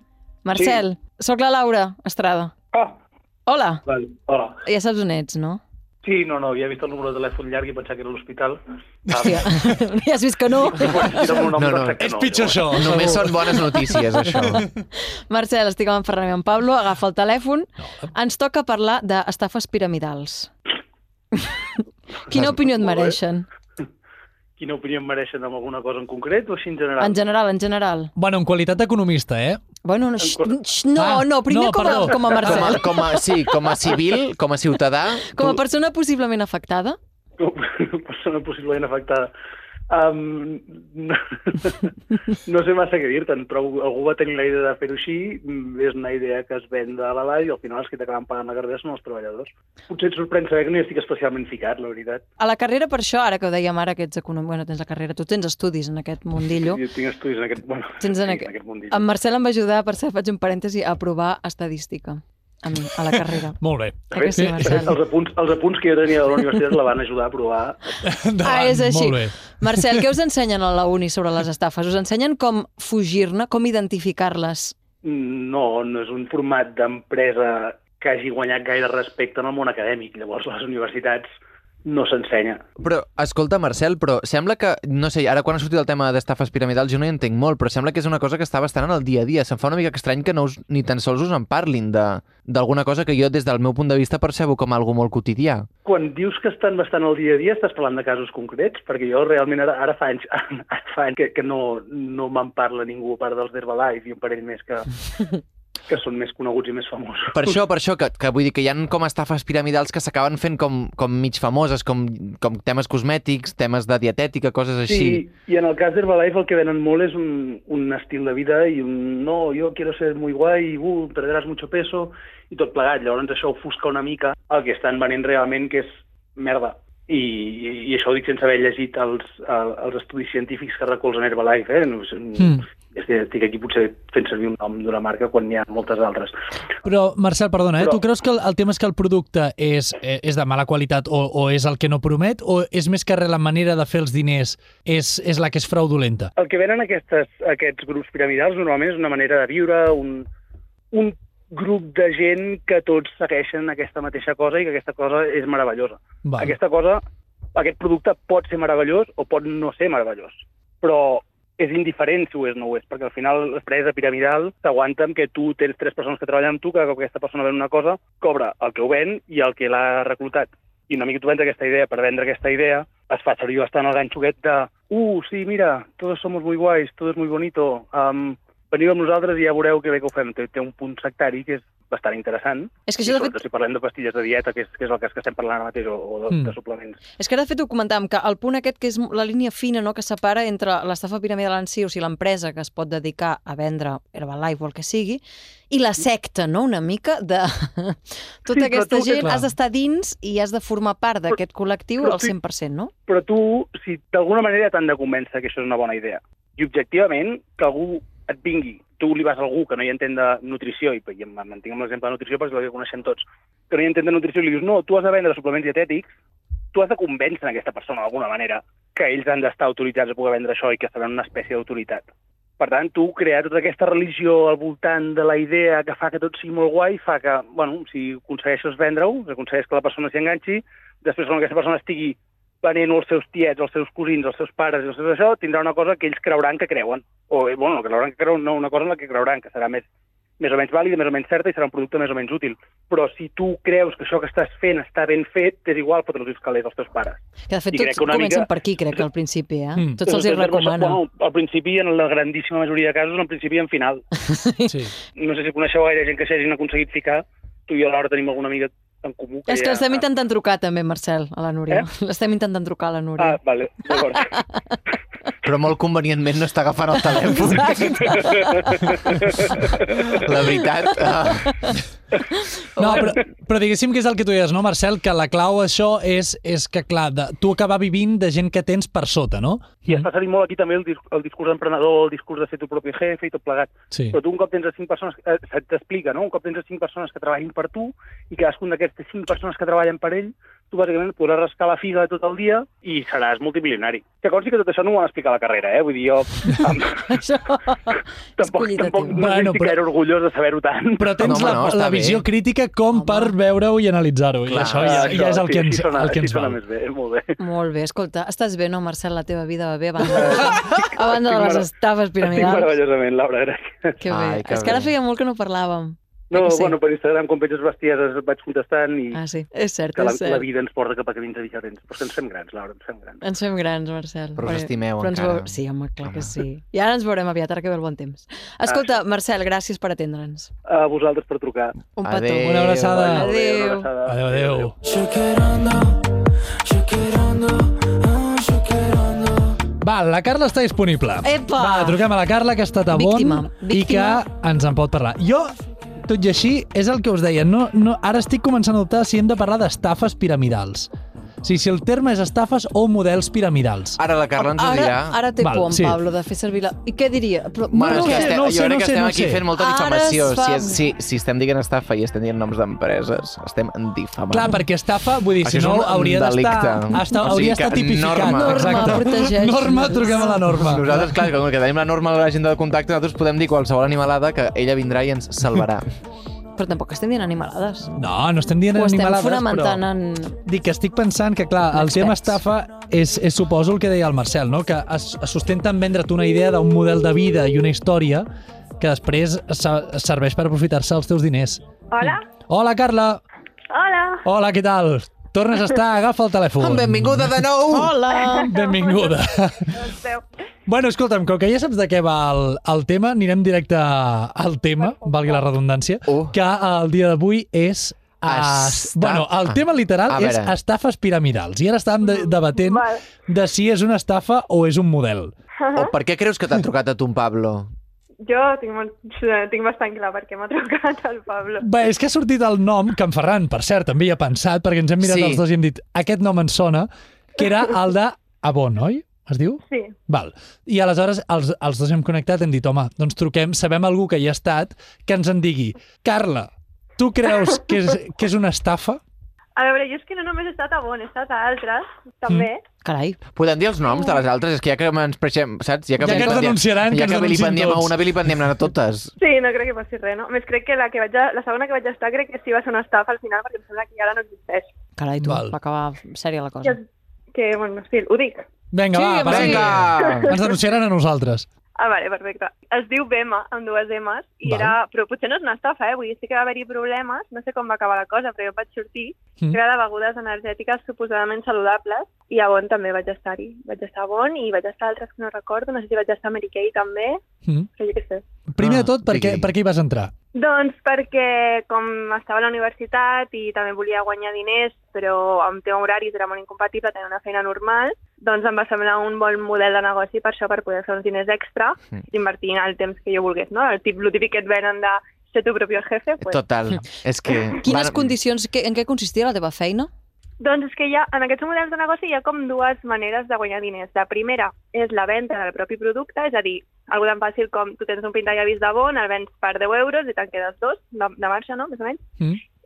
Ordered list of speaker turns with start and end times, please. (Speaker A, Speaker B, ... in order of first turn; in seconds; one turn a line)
Speaker A: 0.4-2.5
Speaker B: 0.5-0.8
Speaker B: 2.7-3.0
Speaker A: 3.5-3.8
Speaker B: 3.9-4.6
Speaker A: 4.6-5.6
Speaker B: 6.0-8.6
Speaker A: 9.1-11.2
Speaker B: 10.7-12.9
Speaker C: 11.6-12.0
Speaker D: 12.0-14.7
Speaker C: 12.7-14.6
Speaker A: 15.3-20.5
Speaker D: 17.8-18.1
Speaker A: 22.3-23.5
Speaker B: 22.8-23.1
Speaker B: 24.6-27.2
Speaker A: 27.0-28.1
Speaker D: 28.1-29.6
Speaker A: 29.8-33.2
Speaker B: 30.2-30.5
Speaker D: 30.9-32.7
Speaker C: 32.4-35.6
Speaker A: 35.3-37.0
Speaker B: 37.4-39.3
Speaker B: 39.9-52.2
Speaker A: 52.4-56.8
Speaker B: 56.5-59.0
Speaker A: 58.0-63.6
Speaker D: 63.6-64.9
Speaker A: 64.1-65.0
Speaker B: 64.2-67.8
Speaker D: 68.0-70.0
Speaker A: 68.4-74.7
Speaker B: 75.0-81.3
Speaker B: 81.8-82.6
Speaker C: 82.8-95.7
Speaker B: 95.8-105.3
Speaker B: 105.9-107.5
Speaker C: 107.3-115.2
Speaker B: 114.9-136.3
Speaker D: 132.4-132.6
Speaker D: 136.8-146.3
Speaker B: 146.3-150.3
Speaker B: 150.9-157.0
Speaker D: 156.2-156.6
Speaker B: 157.5-187.0
Speaker A: 182.9-183.4
Speaker D: 186.3-186.6
Speaker A: 187.2-202.9
Speaker B: 198.5-199.3
Speaker D: 199.2-199.4
Speaker B: 202.0-202.3
Speaker B: 203.1-216.1
Speaker B: 216.7-222.1
Speaker B: 222.6-239.8
Speaker B: 240.4-247.2
Speaker A: 247.5-251.0
Speaker B: 247.7-249.0
Speaker D: 249.8-250.0
Speaker B: 250.0-254.0
Speaker A: 254.2-254.8
Speaker D: 254.7-254.9
Speaker B: 255.1-260.0
Speaker A: 259.5-264.8
Speaker B: 263.2-264.3
Speaker C: 265.4-268.2
Speaker A: 267.0-268.9
Speaker B: 267.9-269.7
Speaker C: 269.8-271.8
Speaker A: 272.8-273.1
Speaker D: 272.8-280.1
Speaker B: 279.9-297.2
Speaker D: 283.9-284.2
Speaker A: 297.1-299.2
Speaker B: 298.4-301.3
Speaker D: 299.1-299.8
Speaker D: 301.0-306.6
Speaker C: 301.2-302.2
Speaker A: 302.9-303.3
Speaker C: 304.5-305.0
Speaker B: 304.6-307.3
Speaker A: 307.4-312.7
Speaker B: 310.1-311.7
Speaker B: 312.2-313.9
Speaker A: 314.0-316.8
Speaker C: 314.1-314.9
Speaker B: 316.3-319.2
Speaker A: 319.1-320.4
Speaker B: 319.9-323.2
Speaker A: 323.2-330.5
Speaker C: 324.4-326.3
Speaker B: 328.7-329.0
Speaker B: 330.7-331.8
Speaker A: 331.9-333.9
Speaker C: 332.0-333.1
Speaker D: 332.4-333.3
Speaker B: 332.8-334.7
Speaker D: 334.0-334.7
Speaker D: 339.8-350.9
Speaker A: 341.2-342.0
Speaker A: 342.9-344.2
Speaker D: 351.4-354.0
Speaker C: 354.0-355.2
Speaker A: 354.4-358.4
Speaker D: 355.4-356.0
Speaker C: 357.7-364.6
Speaker D: 357.8-359.4
Speaker A: 359.5-360.8
Speaker D: 364.3-371.1
Speaker C: 365.4-369.1
Speaker A: 368.2-370.4
Speaker C: 370.5-375.9
Speaker A: 376.6-377.9
Speaker D: 378.0-379.8
Speaker A: 378.7-380.4
Speaker D: 380.4-388.3
Speaker A: 381.7-382.4
Speaker D: 388.8-393.2
Speaker E: 391.9-392.2
Speaker E: 393.7-394.2
Speaker D: 394.2-397.4
Speaker C: 396.6-397.9
Speaker A: 397.7-398.6
Speaker E: 398.2-399.1
Speaker D: 398.4-399.8
Speaker E: 399.7-400.2
Speaker D: 400.6-415.3
Speaker E: 404.8-405.4
Speaker C: 406.1-406.3
Speaker C: 408.2-410.5
Speaker E: 412.6-413.0
Speaker E: 415.6-415.9
Speaker C: 415.7-417.7
Speaker E: 418.2-421.6
Speaker D: 421.6-439.0
Speaker C: 425.0-425.4
Speaker E: 429.7-429.9
Speaker E: 439.6-442.6
Speaker A: 442.8-443.2
Speaker C: 443.3-449.1
Speaker E: 443.9-444.1
Speaker D: 446.0-447.9
Speaker E: 449.2-454.7
Speaker A: 455.0-456.8
Speaker D: 455.2-455.5
Speaker E: 457.3-458.5
Speaker D: 458.7-461.5
Speaker A: 458.9-459.8
Speaker C: 459.2-460.3
Speaker E: 461.8-477.2
Speaker D: 464.4-464.8
Speaker E: 477.8-478.2
Speaker D: 478.5-480.1
Speaker C: 478.6-479.5
Speaker E: 480.3-496.4
Speaker C: 496.2-498.1
Speaker A: 497.6-499.9
Speaker E: 500.4-512.0